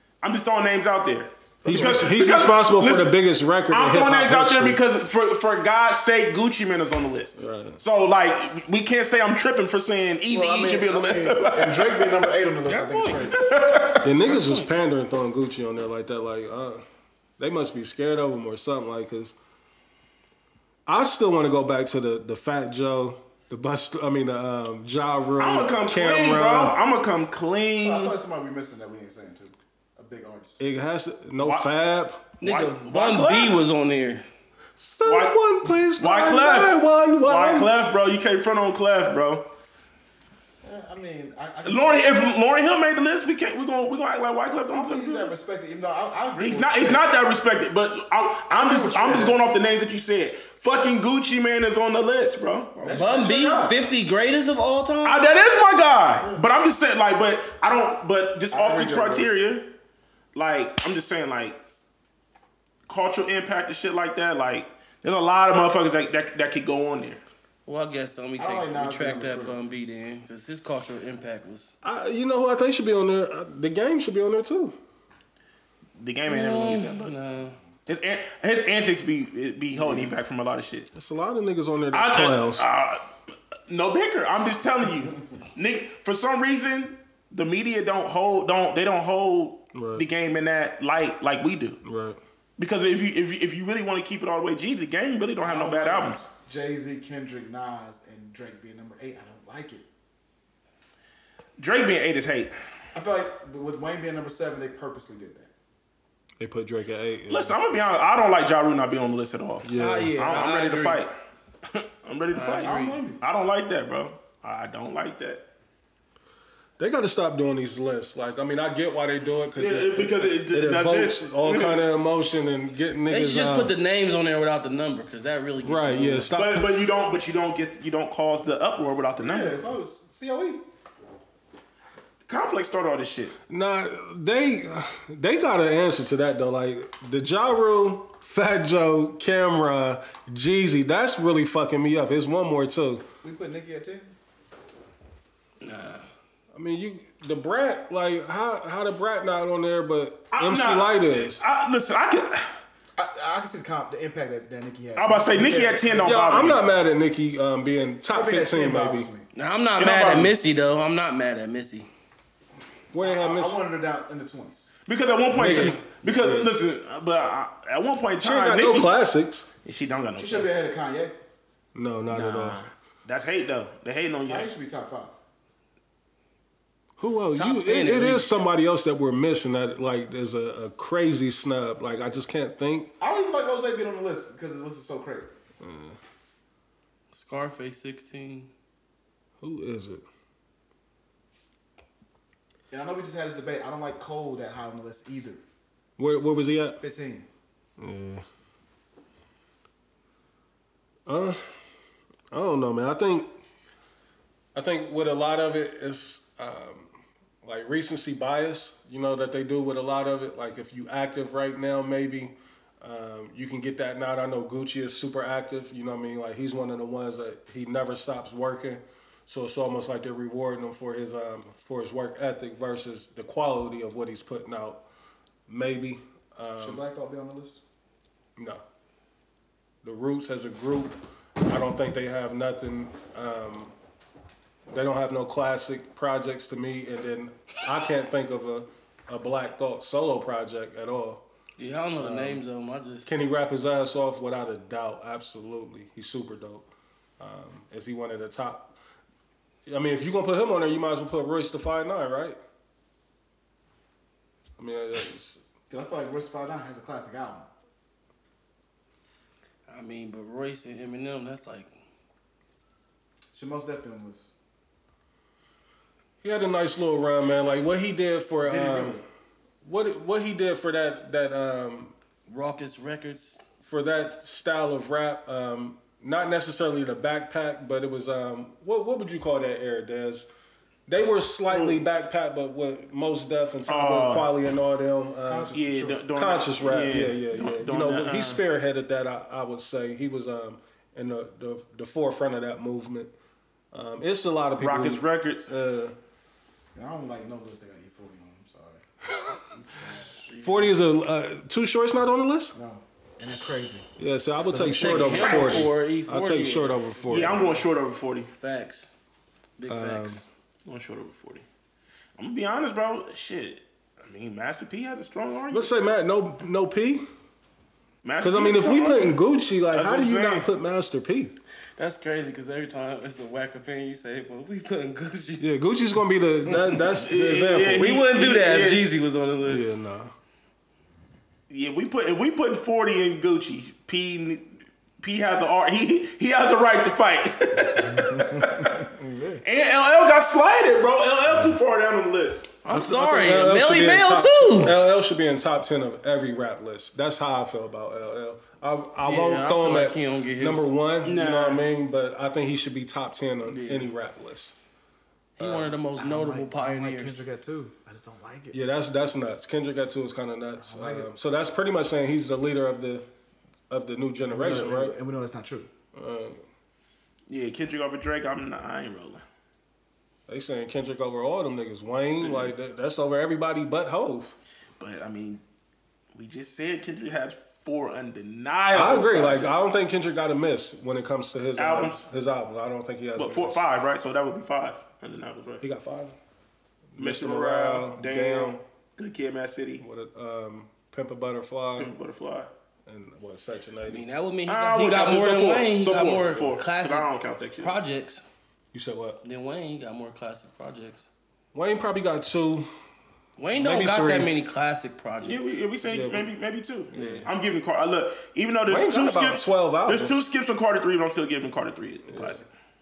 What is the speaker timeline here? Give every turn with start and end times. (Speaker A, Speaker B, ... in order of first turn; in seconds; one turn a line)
Speaker A: 0.2-3.2
Speaker B: 1.6-2.2
Speaker C: 1.6-4.8
Speaker A: 3.7-14.1
Speaker C: 7.3-7.8
Speaker B: 10.3-13.7
Speaker D: 12.8-13.2
Speaker C: 14.0-16.8
Speaker D: 14.2-14.7
Speaker C: 17.4-19.3
Speaker C: 20.9-26.8
Speaker A: 25.4-28.1
Speaker B: 27.8-30.6
Speaker C: 30.6-32.2
Speaker A: 31.4-31.7
Speaker D: 32.4-34.2
Speaker A: 32.4-33.6
Speaker C: 34.8-37.7
Speaker A: 35.0-35.4
Speaker A: 35.9-39.5
Speaker B: 40.6-42.3
Speaker A: 41.6-45.3
Speaker B: 44.7-47.1
Speaker A: 46.4-53.0
Speaker B: 48.5-49.6
Speaker B: 52.8-53.8
Speaker D: 52.9-55.2
Speaker A: 55.0-59.7
Speaker B: 56.2-56.5
Speaker B: 58.5-59.3
Speaker A: 60.3-61.6
Speaker A: 62.9-67.2
Speaker D: 67.7-71.7
Speaker B: 68.4-69.6
Speaker C: 71.8-74.7
Speaker A: 76.0-77.1
Speaker D: 76.3-77.6
Speaker A: 77.8-80.9
Speaker C: 80.9-82.7
Speaker A: 81.9-83.1
Speaker A: 83.7-91.8
Speaker C: 89.7-90.0
Speaker C: 91.8-92.2
Speaker A: 92.6-96.3
Speaker B: 95.4-99.8
Speaker A: 101.6-102.5
Speaker B: 102.9-105.5
Speaker C: 106.4-107.6
Speaker A: 107.3-111.2
Speaker C: 109.6-110.1
Speaker D: 109.7-111.0
Speaker A: 111.7-115.5
Speaker D: 112.3-113.0
Speaker B: 112.6-113.2
Speaker C: 116.8-123.7
Speaker A: 119.5-121.8
Speaker D: 123.1-126.3
Speaker C: 125.6-126.7
Speaker A: 126.3-129.6
Speaker B: 129.2-130.6
Speaker A: 132.3-133.3
Speaker C: 133.5-143.0
Speaker B: 143.2-144.1
Speaker D: 145.6-146.1
Speaker C: 146.5-151.4
Speaker A: 150.3-152.6
Speaker B: 152.9-156.5
Speaker A: 154.9-156.6
Speaker C: 156.0-159.1
Speaker B: 158.1-159.3
Speaker D: 159.3-161.9
Speaker A: 159.8-160.3
Speaker C: 162.9-163.6
Speaker B: 163.0-164.7
Speaker A: 164.8-168.9
Speaker C: 165.3-166.5
Speaker C: 168.2-169.5
Speaker A: 169.6-170.5
Speaker B: 170.2-171.2
Speaker C: 171.7-172.6
Speaker A: 172.1-174.5
Speaker B: 174.2-175.2
Speaker C: 177.0-182.9
Speaker D: 177.3-178.4
Speaker B: 183.0-185.3
Speaker C: 185.6-186.0
Speaker D: 187.1-188.5
Speaker C: 189.4-190.0
Speaker B: 192.7-195.4
Speaker C: 196.0-196.8
Speaker B: 196.8-197.3
Speaker C: 197.8-198.2
Speaker C: 201.1-201.4
Speaker C: 202.3-203.3
Speaker C: 204.5-206.9
Speaker C: 207.4-224.8
Speaker C: 225.5-226.8
Speaker B: 226.6-227.6
Speaker C: 228.4-228.6
Speaker C: 229.8-233.7
Speaker C: 234.7-241.2
Speaker D: 241.6-243.1
Speaker C: 242.0-242.4
Speaker C: 243.1-246.7
Speaker C: 247.2-248.8
Speaker C: 249.7-252.4
Speaker C: 254.6-255.4
Speaker B: 255.7-257.5
Speaker D: 259.7-261.7
Speaker B: 263.3-264.3
Speaker C: 266.2-269.0
Speaker B: 268.4-269.0
Speaker C: 269.6-271.9
Speaker D: 272.3-273.5
Speaker C: 273.6-280.3
Speaker C: 280.9-285.5
Speaker A: 281.5-281.8
Speaker A: 283.7-284.3
Speaker B: 285.2-286.0
Speaker A: 285.5-288.4
Speaker C: 286.1-293.1
Speaker C: 293.7-295.9
Speaker A: 294.6-295.5
Speaker B: 296.7-298.8
Speaker B: 299.6-300.3
Speaker D: 300.3-300.7
Speaker C: 300.4-302.5
Speaker B: 302.5-303.9
Speaker C: 304.0-307.5
Speaker B: 304.5-305.6
Speaker D: 304.7-306.8
Speaker A: 307.1-308.3
Speaker D: 308.3-308.9
Speaker D: 309.6-310.2
Speaker C: 309.7-310.2
Speaker A: 310.6-311.4
Speaker A: 312.2-315.7
Speaker C: 315.5-317.0
Speaker A: 318.0-319.2
Speaker C: 318.2-321.4
Speaker A: 319.7-320.5
Speaker D: 321.8-325.4
Speaker C: 325.4-327.9
Speaker A: 326.9-328.9
Speaker D: 327.7-329.8
Speaker C: 329.4-330.1
Speaker A: 331.5-342.5
Speaker B: 337.6-339.4
Speaker C: 339.0-339.4
Speaker D: 342.6-344.8
Speaker C: 342.7-354.5
Speaker D: 349.0-350.7
Speaker A: 351.0-351.7
Speaker A: 353.5-353.8
Speaker D: 355.4-357.2
Speaker C: 355.4-355.7
Speaker B: 355.9-358.6
Speaker C: 358.5-363.1
Speaker B: 360.6-361.1
Speaker C: 363.7-364.9
Speaker B: 364.3-365.7
Speaker C: 365.9-366.4
Speaker A: 367.3-369.2
Speaker C: 370.3-374.4
Speaker A: 372.2-372.5
Speaker A: 374.8-375.4
Speaker A: 376.1-379.6
Speaker C: 378.7-383.6
Speaker A: 381.6-382.1
Speaker A: 383.2-385.6
Speaker C: 385.6-386.1
Speaker C: 386.9-388.6
Speaker A: 387.0-389.8
Speaker C: 389.8-391.9
Speaker A: 391.8-392.5
Speaker C: 392.9-394.0
Speaker D: 393.9-398.2
Speaker A: 394.5-397.8
Speaker C: 398.7-399.2
Speaker D: 399.2-401.1
Speaker C: 401.5-402.7
Speaker D: 403.4-405.6
Speaker C: 403.5-404.3
Speaker A: 405.2-412.5
Speaker C: 405.9-406.3
Speaker C: 406.9-407.3
Speaker D: 406.9-407.3
Speaker C: 408.7-410.2
Speaker C: 412.1-412.4